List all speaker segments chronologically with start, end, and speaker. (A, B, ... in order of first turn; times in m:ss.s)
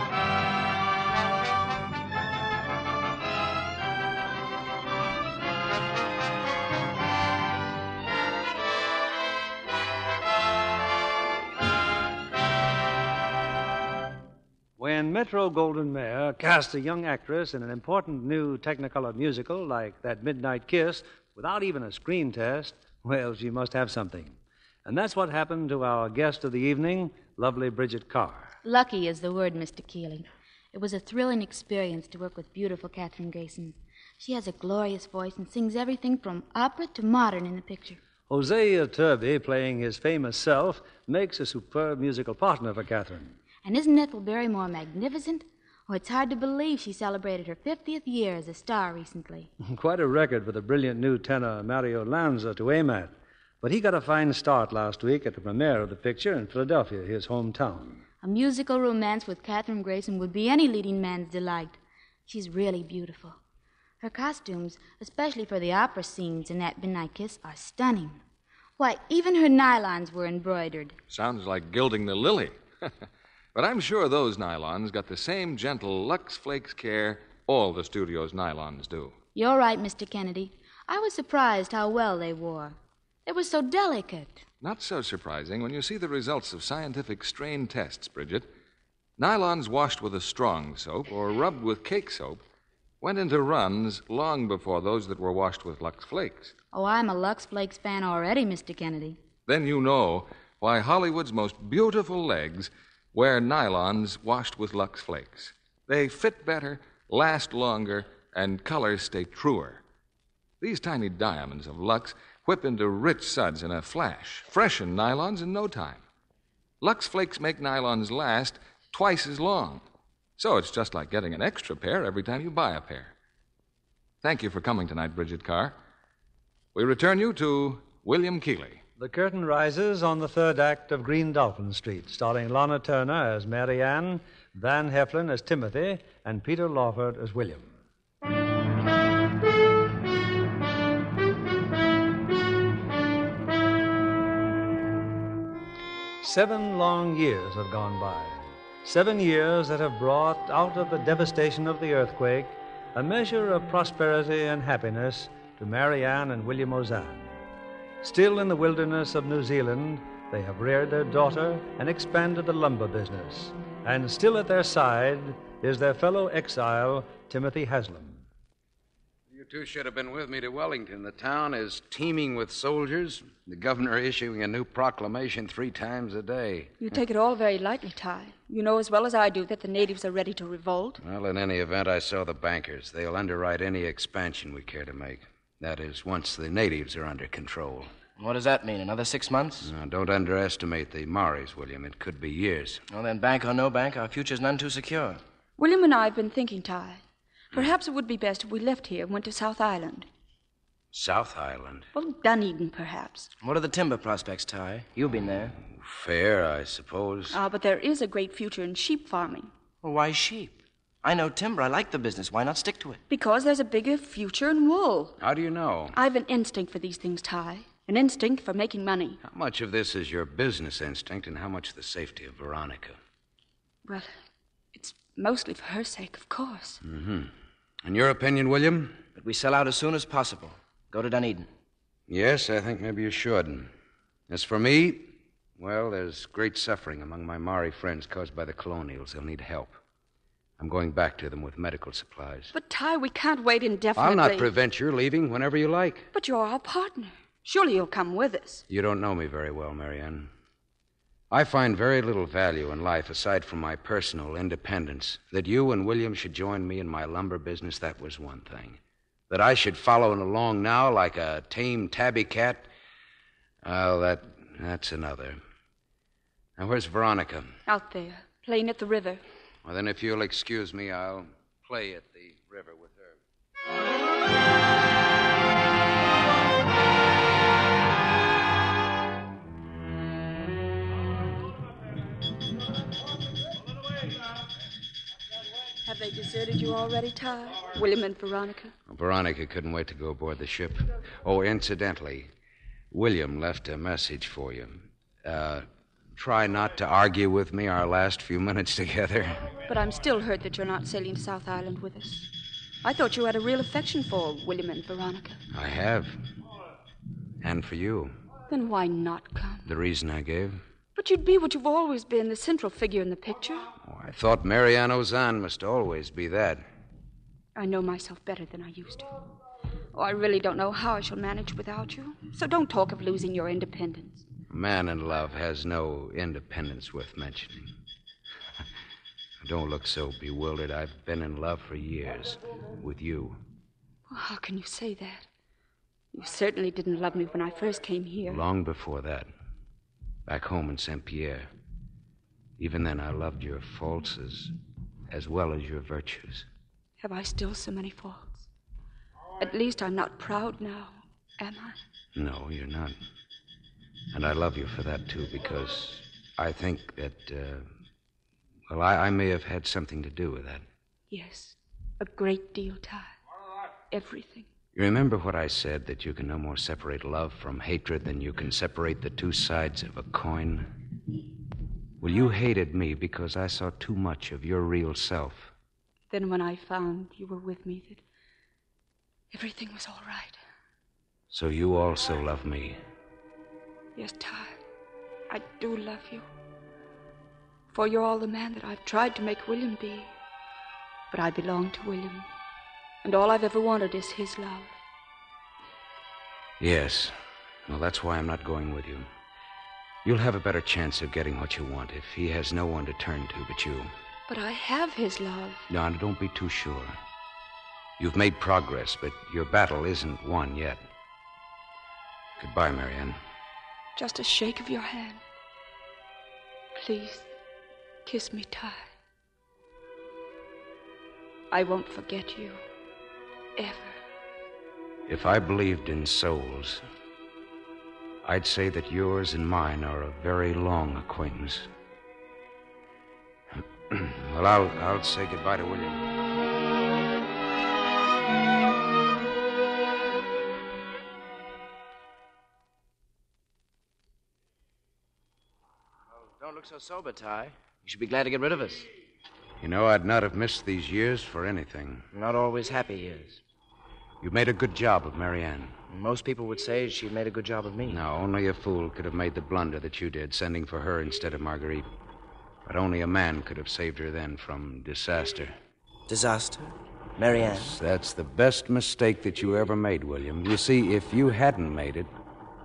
0:14.8-0:28.5 A
0:28.6-0:38.0 B
0:38.3-0:43.3 A
0:43.6-0:49.5 B
0:49.6-0:58.0 A
0:58.2-1:03.4 B
1:04.0-1:08.2 B
1:08.8-1:11.0 B
1:11.1-1:12.6 C
1:13.6-1:19.1 C
1:19.4-1:24.4 B
1:24.6-1:28.5 C
1:29.2-1:32.4 C
1:33.0-1:36.5 C
1:36.7-1:39.2 B
1:39.5-1:49.8 C
1:50.6-1:56.0 C
1:56.8-1:59.8 C
2:00.4-2:03.1 C
2:04.2-2:05.8 C
2:06.7-2:08.8 C
2:09.0-2:17.7 A
2:26.2-2:37.4 A
2:38.0-2:48.2 A
2:49.3-2:56.9 D
2:56.8-3:01.0 E
3:01.0-3:07.9 D
3:08.2-3:09.7 F
3:09.6-3:12.8 D
3:12.9-3:15.2 F
3:15.6-3:17.0 E
3:17.5-3:20.1 E
3:20.9-3:21.9 D
3:22.0-3:23.3 E
3:23.4-3:25.6 F
3:25.7-3:27.4 D
3:27.3-3:29.5 E
3:29.8-3:33.0 F
3:33.1-3:35.2 E
3:35.2-3:36.0 D
3:35.9-3:39.2 E
3:39.2-3:43.0 D
3:43.9-3:44.1 E
3:44.7-3:46.8 E
3:46.8-3:47.3 D
3:47.8-3:49.0 D
3:49.2-3:51.5 F
3:52.1-3:53.7 D
3:54.3-3:59.8 D
4:00.6-4:02.5 D
4:02.5-4:04.5 E
4:04.0-4:06.1 D
4:06.1-4:08.6 E
4:08.7-4:10.3 D
4:11.3-4:22.7 D
4:23.6-4:25.4 D
4:26.6-4:27.6 D
4:27.7-4:29.2 E
4:29.6-4:33.2 D
4:45.8-4:48.7 E
4:48.9-4:52.3 D
4:52.9-4:59.6 D
4:59.7-5:02.3 E
5:02.8-5:05.4 E
5:05.5-5:06.2 D
5:07.4-5:08.1 D
5:08.5-5:09.7 E
5:09.6-5:10.6 D
5:11.0-5:13.7 E
5:13.8-5:16.6 D
5:17.6-5:19.1 E
5:19.9-5:24.3 E
5:24.5-5:27.8 D
5:29.4-5:33.4 D
5:34.1-5:35.3 E
5:36.1-5:38.4 E
5:38.3-5:39.3 D
5:40.3-5:41.5 D
5:42.6-5:44.5 D
5:45.1-5:46.5 D
5:47.0-5:48.5 E
5:49.4-5:51.8 E
5:52.2-5:53.0 D
5:54.1-5:57.7 D
5:58.7-6:00.6 D
6:01.1-6:03.1 E
6:03.9-6:04.5 E
6:04.7-6:10.7 D
6:12.0-6:15.5 D
6:16.1-6:18.0 E
6:19.3-6:20.4 E
6:21.3-6:22.8 D
6:24.0-6:24.6 E
6:25.3-6:26.3 E
6:27.7-6:30.1 E
6:31.1-6:32.3 E
6:33.0-6:34.7 E
6:36.6-6:39.1 D
6:40.0-6:43.9 D
6:44.3-6:45.7 E
6:45.7-6:47.0 D
6:48.0-6:50.9 D
6:52.4-6:53.2 D
6:54.0-6:55.2 E
6:56.8-6:57.3 E
6:58.0-6:58.9 E
7:01.5-7:02.6 E
7:03.6-7:03.9 E
7:05.1-7:06.8 D
7:08.2-7:11.7 D
7:13.5-7:16.0 D
7:26.3-7:28.9 F
7:29.6-7:32.1 D
7:32.1-7:33.4 F
7:34.2-7:35.8 D
7:35.9-7:38.0 F
7:37.9-7:41.9 D
7:42.6-7:45.5 D
7:46.1-7:47.8 F
7:47.4-7:52.1 D